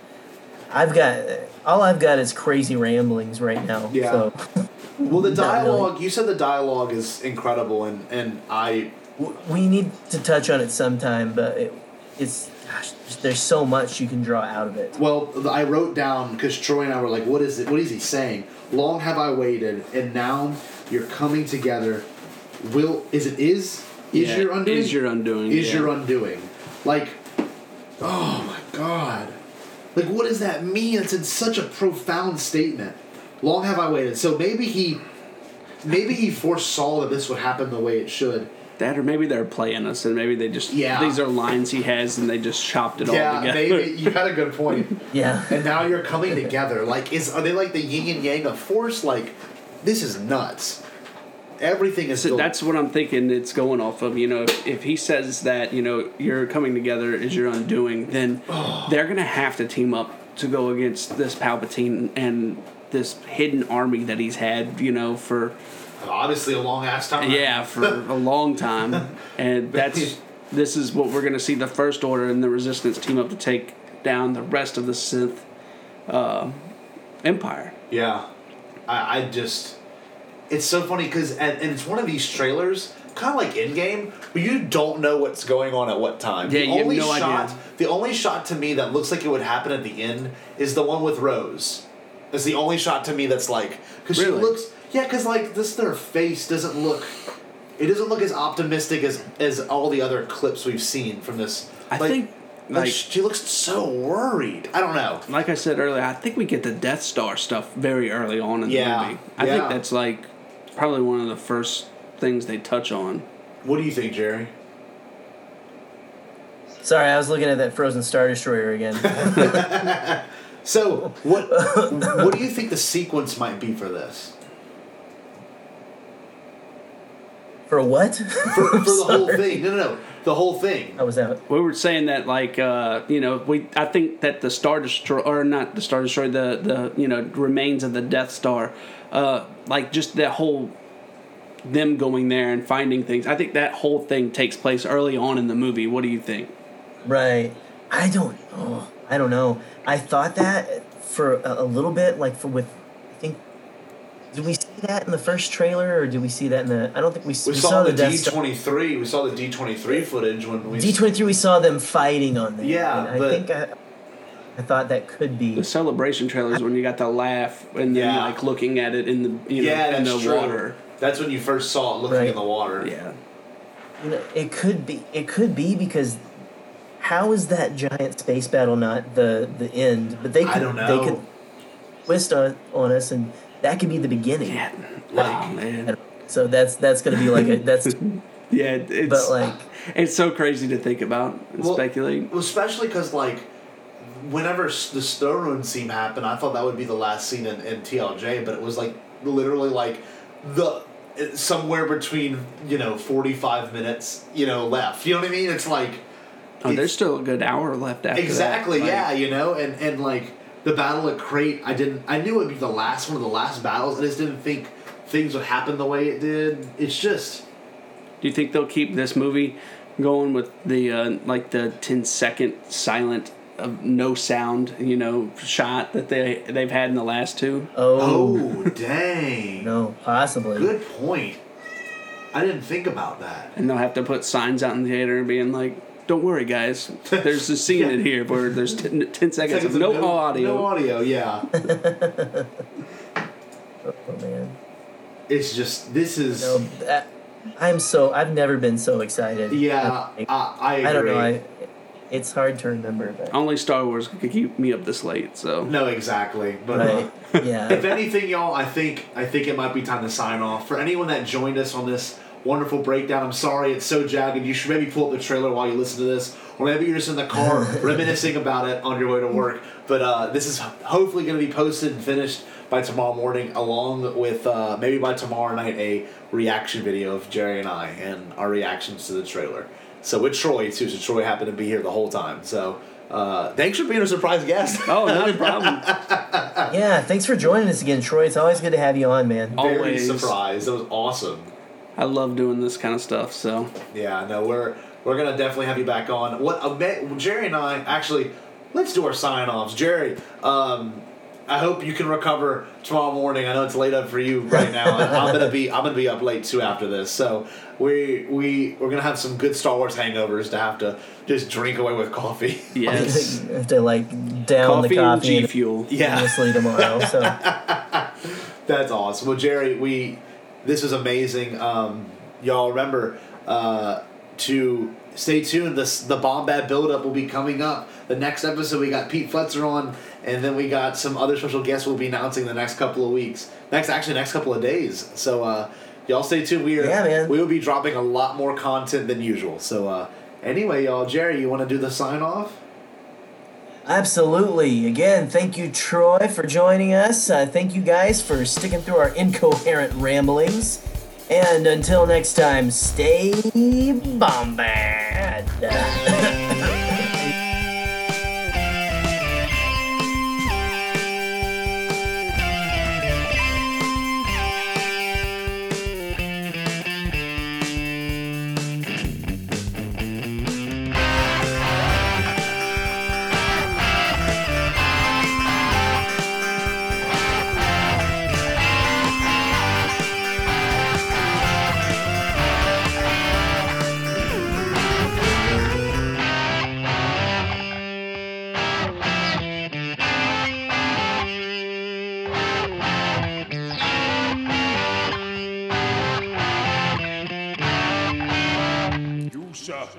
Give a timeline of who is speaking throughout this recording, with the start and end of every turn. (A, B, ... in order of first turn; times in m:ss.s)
0:00.7-0:05.9 A
0:03.9-0:04.3 B
0:05.0-0:08.9 B
0:09.2-0:14.9 A
0:14.9-0:22.1 B
0:22.6-0:27.2 B
0:24.1-0:25.9 C
0:28.0-0:29.4 B
0:29.9-0:35.0 B
0:35.8-0:38.5 B
0:38.8-0:44.1 C
0:40.7-0:41.2 B
0:43.0-0:45.0 B
0:45.1-0:45.6 A
0:45.5-0:50.8 B
0:51.6-0:52.5 B
0:52.2-1:05.6 C
0:58.5-0:59.0 B
1:06.0-1:08.0 B
1:07.2-1:15.4 C
1:09.7-1:10.1 B
1:16.1-1:16.6 C
1:17.2-1:17.7 C
1:17.9-1:18.3 B
1:18.9-1:19.8 B
1:20.5-1:37.1 B
1:26.4-1:27.6 C
1:34.1-1:34.5 C
1:37.8-1:45.2 B
1:41.9-1:43.0 C
1:45.3-1:53.2 C
1:48.6-1:49.8 B
1:53.6-1:54.5 B
1:56.8-1:59.8 A
1:59.0-2:04.3 B
2:01.5-2:02.3 A
2:07.7-2:09.6 A
2:08.5-2:11.0 B
2:11.0-2:11.4 A
2:11.5-2:20.7 C
2:21.6-2:26.5 C
2:27.0-2:33.4 A
2:34.3-2:38.3 A
2:37.4-2:41.1 B
2:40.7-2:43.7 A
2:42.6-2:43.4 B
2:44.6-2:45.7 A
2:45.5-2:50.8 C
2:47.8-2:48.4 B
2:49.5-2:52.9 B
2:52.1-2:52.4 A
2:52.8-2:53.2 C
2:54.0-2:56.2 A
2:57.0-3:01.2 A
3:00.4-3:01.2 B
3:02.0-3:04.6 A
3:04.4-3:05.9 C
3:05.1-3:05.6 B
3:05.8-3:08.0 A
3:07.1-3:12.3 C
3:09.0-3:09.6 A
3:11.6-3:13.5 B
3:14.0-3:26.0 B
3:26.6-3:26.9 B
3:26.6-3:29.1 C
3:28.1-3:37.4 B
3:38.2-3:47.7 C
3:47.7-3:48.4 A
3:48.0-3:49.7 B
3:49.6-3:50.7 A
3:50.5-3:51.4 B
3:52.3-3:53.5 B
3:53.5-4:00.7 C
3:57.1-3:57.9 B
3:59.4-4:01.5 B
4:01.5-4:02.6 A
4:03.8-4:04.6 A
4:05.3-4:06.6 B
4:06.3-4:10.3 A
4:09.5-4:11.3 B
4:10.8-4:13.4 A
4:13.3-4:15.8 C
4:15.6-4:17.1 B
4:16.7-4:17.8 A
4:16.8-4:17.4 C
4:17.7-4:46.8 B
4:27.4-4:27.9 A
4:44.8-4:45.8 C
4:46.7-4:49.6 A
4:49.5-4:51.5 B
4:49.6-4:50.3 C
4:52.0-4:53.7 C
4:53.9-5:13.2 B
5:04.9-5:05.4 A
5:12.7-5:13.4 C
5:12.9-5:17.4 A
5:14.6-5:15.9 C
5:15.9-5:42.6 B
5:36.8-5:37.4 A
5:43.8-5:57.3 A